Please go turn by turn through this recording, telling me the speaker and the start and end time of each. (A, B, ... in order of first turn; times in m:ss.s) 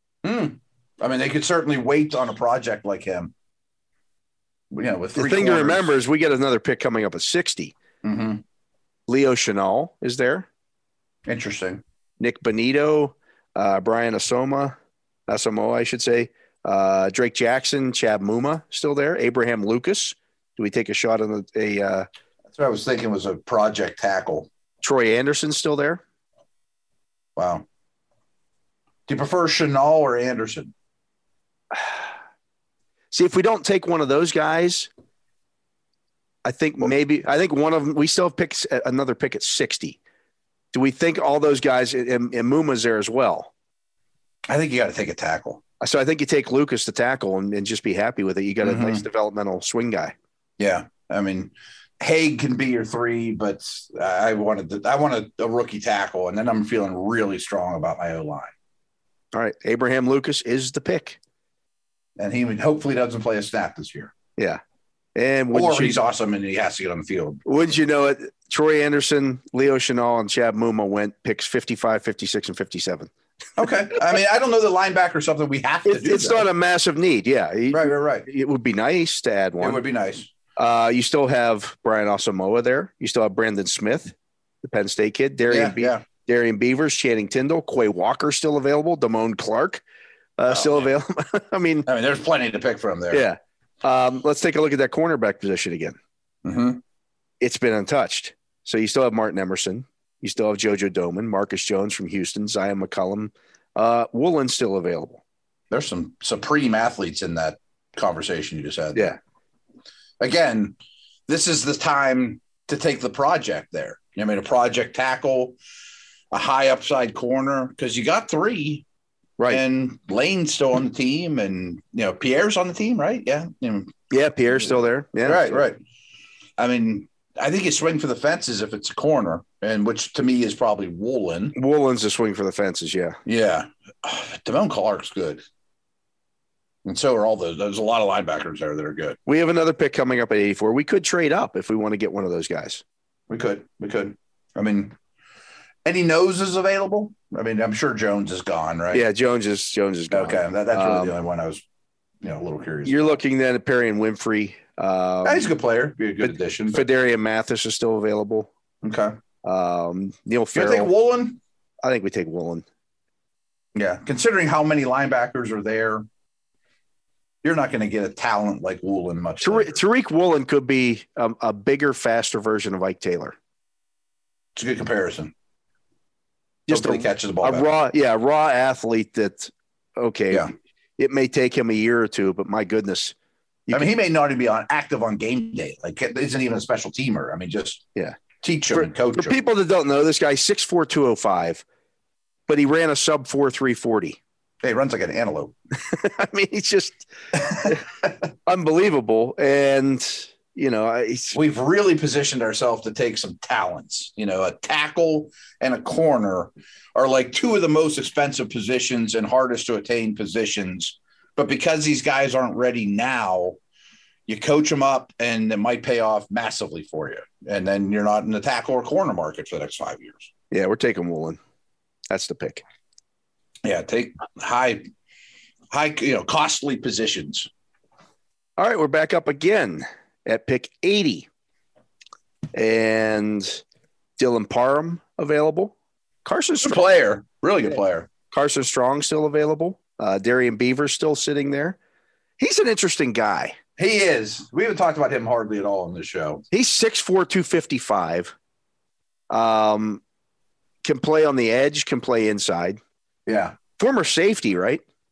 0:00.2-0:03.3 A
0:04.7-0:05.9 A
0:05.2-0:07.8 B
0:08.0-0:08.4 A
0:09.1-0:10.5 B
0:11.2-0:11.8 A
0:12.2-0:14.8 B
0:15.3-0:22.1 B
0:22.5-0:24.5 A
0:24.8-0:26.0 B
0:27.4-0:27.6 A
0:29.1-0:30.7 A
0:31.7-0:32.0 B
0:33.1-0:34.9 B
0:36.4-0:40.0 B
0:40.7-0:43.5 B
0:44.5-0:45.6 A
0:45.8-0:50.1 B
0:48.6-0:49.0 A
0:50.6-0:58.5 A
0:59.3-1:01.2 B
1:02.2-1:04.1 A
1:05.2-1:06.0 B
1:05.5-1:07.4 A
1:07.5-1:13.1 B
1:13.6-1:16.5 A
1:15.9-1:19.8 B
1:17.7-1:18.3 A
1:19.6-1:20.3 A
1:20.6-1:29.8 B
1:25.5-1:26.0 A
1:30.4-1:31.9 B
1:30.5-1:30.9 A
1:31.9-1:33.2 A
1:33.1-1:36.0 B
1:36.4-1:36.8 A
1:37.4-1:45.2 B
1:45.7-1:49.1 A
1:50.2-1:50.8 A
1:51.3-1:55.6 A
1:56.3-1:58.8 A
1:59.5-2:03.9 A
2:04.1-2:05.6 B
2:05.2-2:05.8 A
2:06.6-2:11.5 A
2:11.5-2:13.2 B
2:13.2-2:15.4 A
2:16.8-2:19.2 A
2:19.2-2:22.8 B
2:23.3-2:25.0 A
2:25.8-2:29.0 A
2:28.9-2:31.1 B
2:30.1-2:31.6 A
2:32.2-2:33.2 A
2:32.8-2:35.5 B
2:35.2-2:36.9 A
2:36.2-2:38.5 B
2:38.8-2:39.2 A
2:39.4-2:40.9 B
2:40.5-2:41.4 A
2:41.8-2:42.6 B
2:43.8-2:46.0 A
2:47.4-2:49.8 A
2:49.4-2:53.4 B
2:54.5-2:55.3 A
2:56.7-3:03.1 B
2:56.7-2:57.7 A
3:03.7-3:07.9 A
3:08.4-3:09.4 A
3:08.7-3:11.6 B
3:12.5-3:14.2 B
3:14.6-3:15.5 A
3:15.8-3:17.8 B
3:17.5-3:17.8 A
3:18.5-3:21.4 B
3:21.3-3:33.6 A
3:34.3-3:40.3 A
3:40.5-3:41.4 B
3:42.1-3:42.6 B
3:43.6-3:44.9 A
3:45.7-3:47.5 A
3:48.6-3:51.3 B
3:52.5-3:53.6 B
3:54.2-3:55.7 B
3:56.2-3:56.8 B
3:56.6-3:58.1 A
3:58.3-4:01.8 B
4:02.4-4:03.6 B
4:03.8-4:06.4 A
4:06.5-4:08.3 B
4:09.3-4:10.0 B
4:10.8-4:12.8 B
4:13.2-4:13.6 A
4:13.8-4:14.8 B